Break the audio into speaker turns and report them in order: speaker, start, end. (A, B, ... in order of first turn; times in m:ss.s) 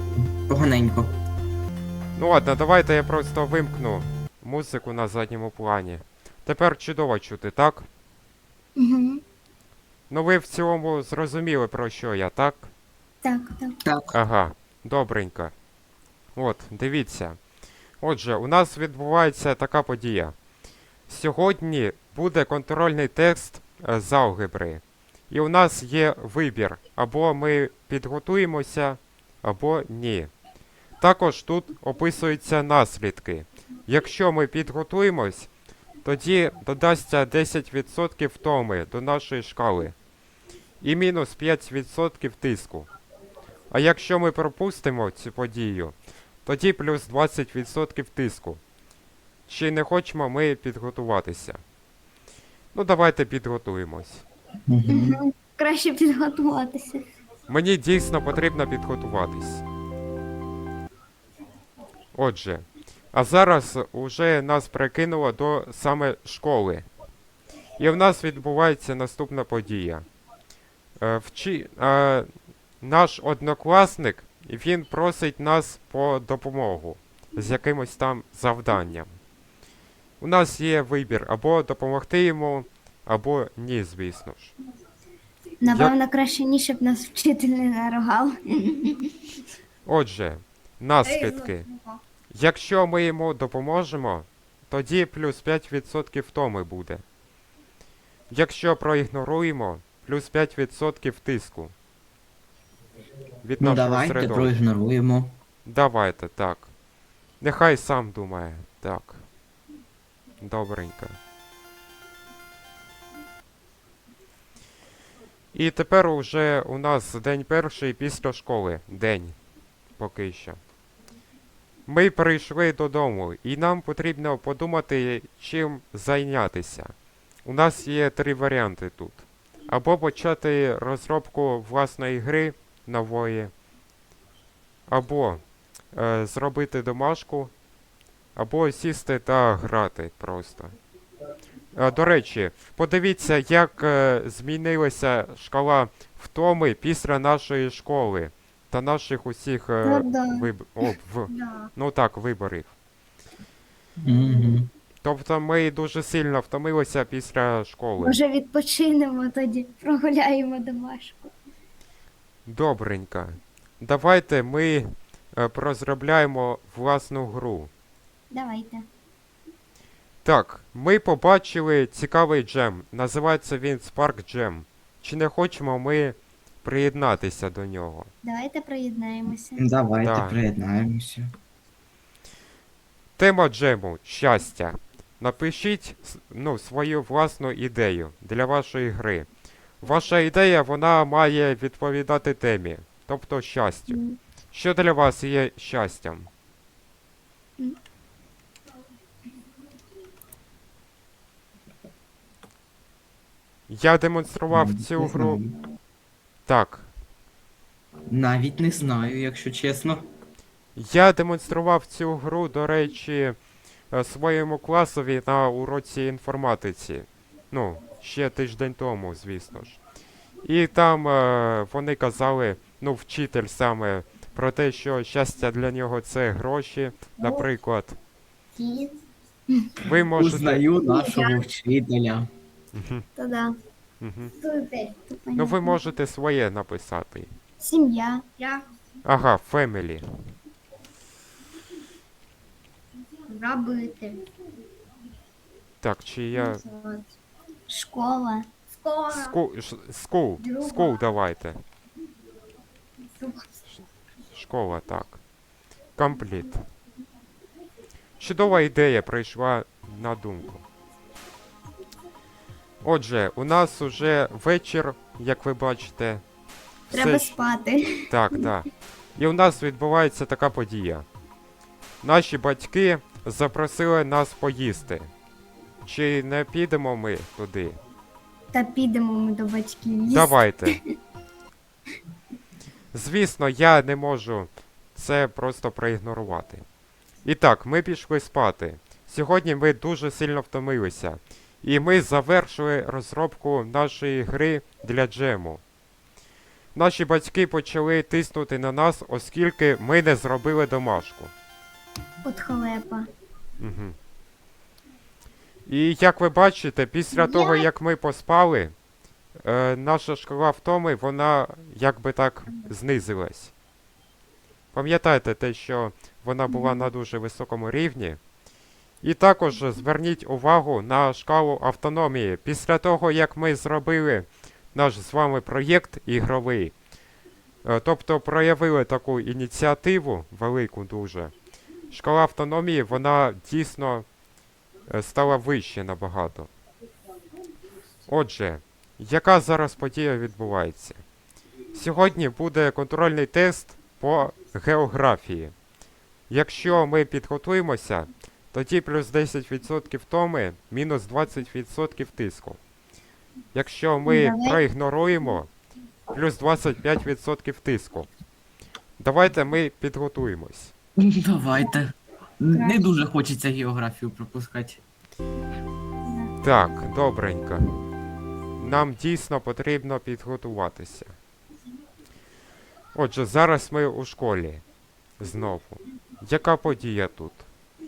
0:00.2-0:01.1 A
0:02.2-0:07.9 B
0:08.8-0:09.2 C
0:10.1-0:12.7 B
0:13.2-0:13.8 C
0:13.8-0:14.1 A
0:14.1-0:15.5 B
0:16.4-0:17.4 B
0:18.0-0:20.3 B
0:21.1-0:30.3 B
0:31.0-0:35.5 B
0:36.0-0:40.0 B
0:40.8-0:42.9 B
0:43.7-0:48.6 B
0:49.5-0:51.6 B
0:52.7-0:54.2 B
0:54.7-0:55.2 A
0:54.9-0:57.0 C
0:57.5-0:59.6 B
1:02.1-1:06.9 B
1:07.8-1:10.0 B
1:11.0-1:12.3 B
1:12.8-1:19.2 B
1:20.2-1:24.5 B
1:25.6-1:29.1 C
1:29.8-1:31.6 B
1:31.0-1:32.0 C
1:32.3-1:37.0 B
1:38.3-1:41.7 B
1:43.4-1:44.6 B
1:43.6-1:45.3 A
1:45.6-1:46.7 B
1:47.4-1:49.2 B
1:50.4-1:51.2 B
1:55.5-1:59.4 B
2:00.0-2:00.6 B
2:01.9-2:06.9 B
2:07.4-2:13.5 B
2:14.9-2:17.5 B
2:18.3-2:20.7 B
2:21.7-2:32.7 B
2:29.8-2:30.5 C
2:31.3-2:31.7 C
2:34.0-2:34.7 A
2:35.0-2:38.2 B
2:38.0-2:41.3 C
2:42.5-2:47.7 B
2:48.3-2:48.8 C
2:50.2-2:58.1 B
2:58.2-2:59.6 C
2:59.6-3:01.3 A
3:00.0-3:00.4 B
3:03.2-3:09.3 B
3:09.8-3:14.0 B
3:13.9-3:14.2 C
3:14.5-3:16.3 B
3:23.7-3:25.4 B
3:24.5-3:25.5 A
3:26.5-3:26.9 B
3:28.1-3:30.0 A
3:30.7-3:33.4 B
3:33.9-3:39.8 B
3:40.4-3:48.0 B
3:48.6-3:49.0 C
3:49.8-3:50.7 B
3:50.1-3:52.3 A
3:50.8-3:51.4 C
3:52.7-3:53.0 B
3:53.2-3:53.6 C
3:54.0-3:54.3 B
3:54.4-3:55.8 C
3:55.3-3:57.3 B
3:57.6-3:58.6 C
3:59.0-4:00.0 B
4:03.3-4:04.2 C
4:05.8-4:06.6 B
4:06.3-4:07.1 C
4:07.7-4:09.3 C
4:09.1-4:11.6 B
4:10.4-4:11.0 C
4:13.2-4:13.5 C
4:14.3-4:15.2 B
4:16.0-4:16.6 B
4:18.2-4:20.6 B
4:22.8-4:26.2 B
4:26.9-4:27.3 B
4:26.9-4:28.4 C
4:28.1-4:31.0 B
4:32.0-4:35.1 B
4:35.8-4:37.8 B
4:38.5-4:40.7 C
4:40.1-4:40.8 B
4:42.9-4:46.6 B
4:47.2-4:55.6 B
4:56.7-5:01.3 B
5:02.2-5:03.1 C
5:03.6-5:04.0 B
5:05.7-5:08.7 B
5:07.1-5:07.7 C
5:09.4-5:13.5 B
5:14.7-5:18.2 B
5:16.5-5:16.8 C
5:19.0-5:26.7 B
5:27.6-5:31.3 B
5:31.9-5:34.0 B
5:34.9-5:36.5 B
5:38.1-5:41.0 B
5:41.7-5:45.5 B
5:46.3-5:52.6 B
5:53.5-5:55.5 B
5:54.0-5:54.6 C
5:56.1-5:58.1 B
5:59.0-6:00.7 B
6:01.0-6:04.8 A
6:02.5-6:02.8 C
6:06.0-6:06.3 C
6:06.4-6:07.6 B
6:08.6-6:11.1 B
6:12.9-6:14.6 B
6:15.2-6:17.5 B